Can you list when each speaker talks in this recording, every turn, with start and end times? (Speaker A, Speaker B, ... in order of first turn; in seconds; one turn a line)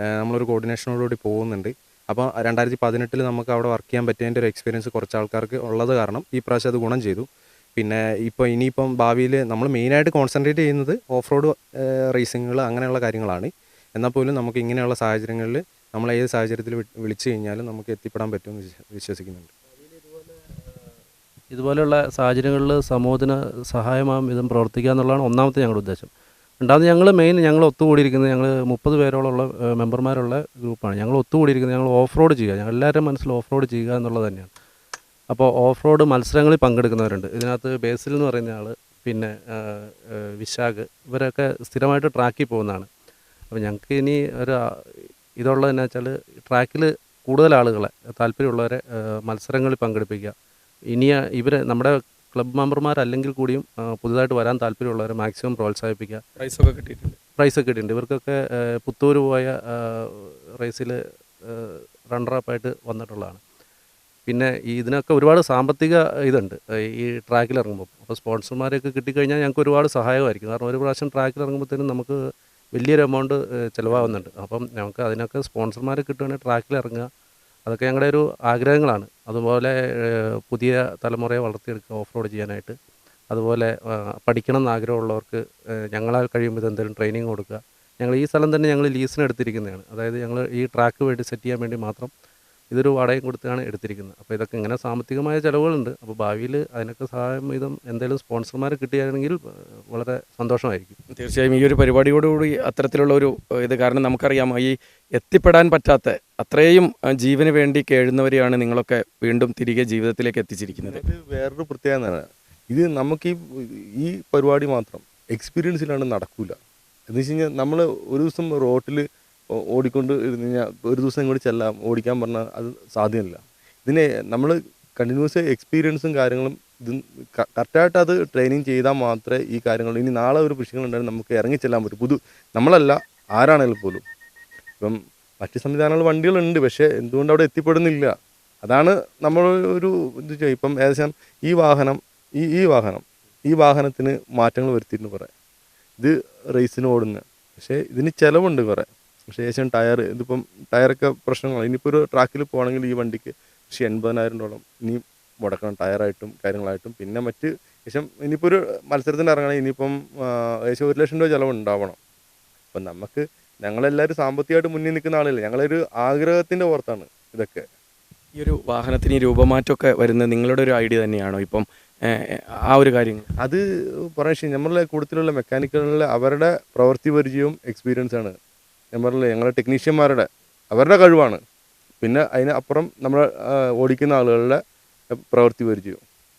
Speaker A: 0.2-19.5
Speaker B: 21.5-26.1
Speaker B: 26.6-34.5
Speaker B: 35.3-42.9
Speaker B: 43.5-50.3
Speaker B: 50.9-56.2
Speaker C: 56.4-57.1
Speaker B: 57.4-63.4
Speaker B: 64.3-72.2
Speaker B: 72.7-77.1
Speaker B: 77.7-82.8
Speaker B: 83.3-92.1
Speaker B: 92.7-99.4
Speaker B: 99.9-101.0
Speaker C: 101.1-111.0
Speaker D: 110.8-116.6
Speaker D: 117.1-119.0
Speaker D: 119.7-134.0
Speaker D: 134.8-145.3
Speaker D: 146.0-162.0
Speaker D: 162.7-167.7
Speaker C: 168.4-173.3
Speaker D: 174.1-178.3
Speaker D: 178.9-181.4
Speaker D: 182.0-184.6
Speaker D: 185.1-186.0